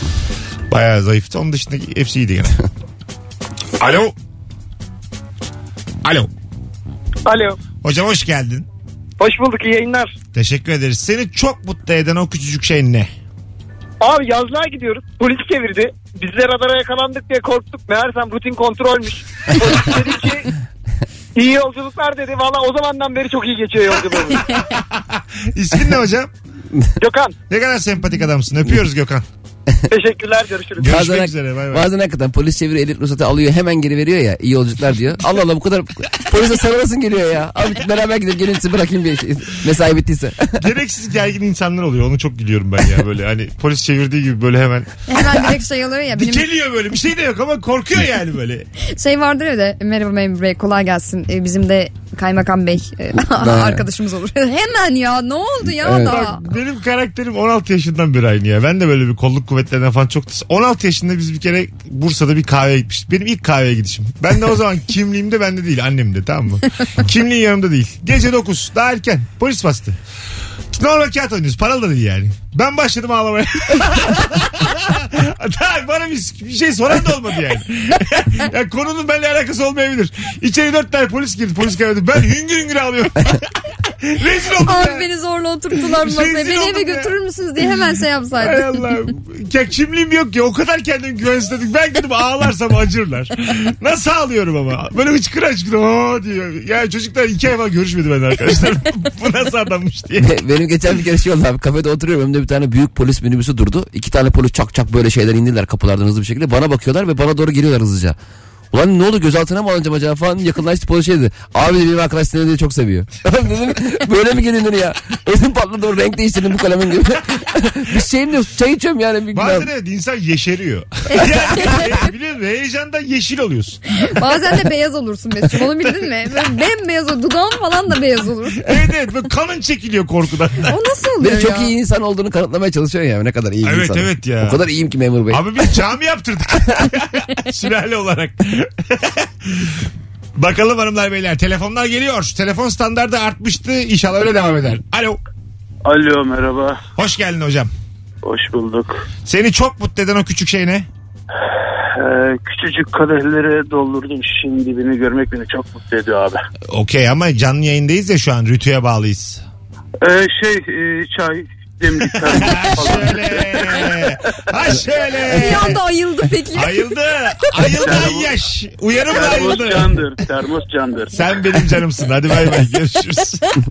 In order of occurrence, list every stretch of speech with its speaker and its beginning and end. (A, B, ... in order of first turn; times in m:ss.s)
0:00.7-0:02.6 A
0:03.8-0:04.1 A
0:06.0-0:06.3 A
0:07.3-0:07.6 B
0:07.8-0:08.7 A
0:09.2-0:10.2 B
0:10.4-0:13.1 A
0:14.0-0:20.5 B
0:21.4-0:24.5 B
0:24.5-0:26.3 A
0:27.0-0:27.4 B
0:27.5-0:29.3 A
0:29.9-0:30.9 B
0:30.8-0:31.9 A
0:30.8-0:40.6 C
0:40.6-0:45.0 A
0:45.1-0:46.5 D
0:46.1-0:48.7 A
0:48.9-0:56.4 D
0:53.3-0:53.9 C
0:55.7-0:56.2 C
0:56.0-1:10.0 A
1:10.7-1:23.5 A
1:24.0-1:25.1 A
1:24.6-1:28.8 D
1:25.9-1:27.1 A
1:28.4-1:40.3 A
1:40.2-1:48.2 C
1:48.7-1:59.7 C
1:59.3-2:04.0 A
2:04.0-2:08.8 D
2:08.6-2:10.8 A
2:10.6-2:11.7 D
2:11.2-2:15.6 C
2:13.6-2:14.6 A
2:15.3-2:19.8 A
2:20.4-2:25.2 A
2:25.8-2:26.8 E
2:27.0-2:27.7 A
2:28.2-2:29.0 E
2:29.3-2:30.9 A
2:31.9-2:36.4 E
2:36.7-2:39.4 A
2:40.0-2:43.9 E
2:42.1-2:45.8 A
2:45.3-2:46.9 D
2:46.5-2:50.0 A
2:47.7-2:48.3 E
2:49.1-2:51.2 E
2:51.1-2:53.5 A